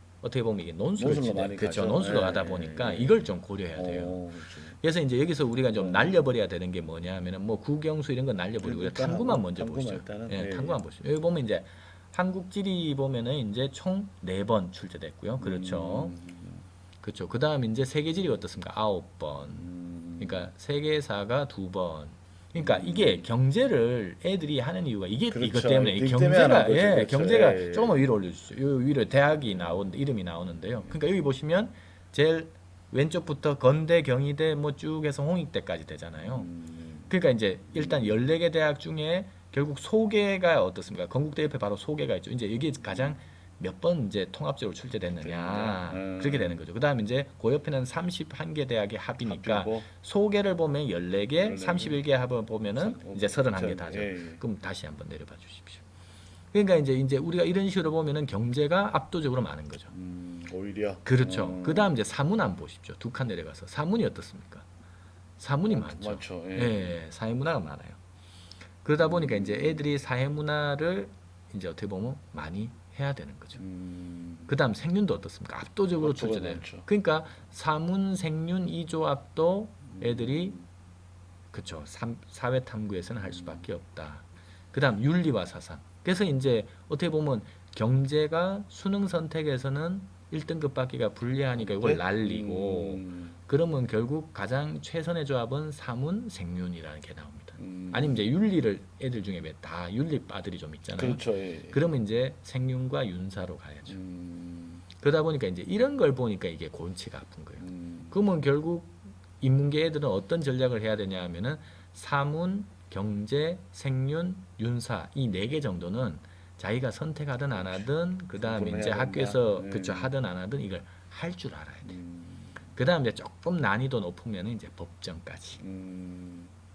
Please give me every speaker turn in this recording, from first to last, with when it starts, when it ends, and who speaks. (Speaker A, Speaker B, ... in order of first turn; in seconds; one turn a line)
Speaker A: 0.2-4.2
Speaker B: 1.0-4.8
Speaker A: 4.8-16.2
Speaker B: 5.7-6.2
Speaker B: 8.6-10.8
Speaker B: 15.4-16.7
Speaker A: 17.0-19.6
Speaker B: 19.5-20.5
Speaker A: 20.2-36.5
Speaker B: 22.6-23.3
Speaker B: 25.3-28.1
Speaker B: 36.3-37.1
Speaker A: 37.1-55.8
Speaker B: 37.7-38.2
Speaker B: 45.1-46.6
Speaker B: 49.2-49.9
Speaker B: 51.4-52.0
Speaker B: 52.7-54.4
Speaker A: 56.5-59.9
Speaker B: 59.9-62.0
Speaker A: 61.0-64.7
Speaker A: 65.4-68.0
Speaker B: 65.7-67.0
Speaker A: 68.8-73.6
Speaker B: 69.0-69.9
Speaker B: 73.6-74.5
Speaker A: 74.5-80.6
Speaker B: 75.9-76.9
Speaker B: 79.9-80.7
Speaker A: 81.5-104.0
Speaker B: 83.2-83.7
Speaker B: 91.5-93.4
Speaker B: 97.6-98.2
Speaker B: 100.9-101.8
Speaker B: 103.9-104.9
Speaker A: 104.9-122.0
Speaker B: 107.6-108.2
Speaker B: 117.5-120.1
Speaker B: 121.8-122.7
Speaker A: 122.7-125.6
Speaker B: 125.6-126.5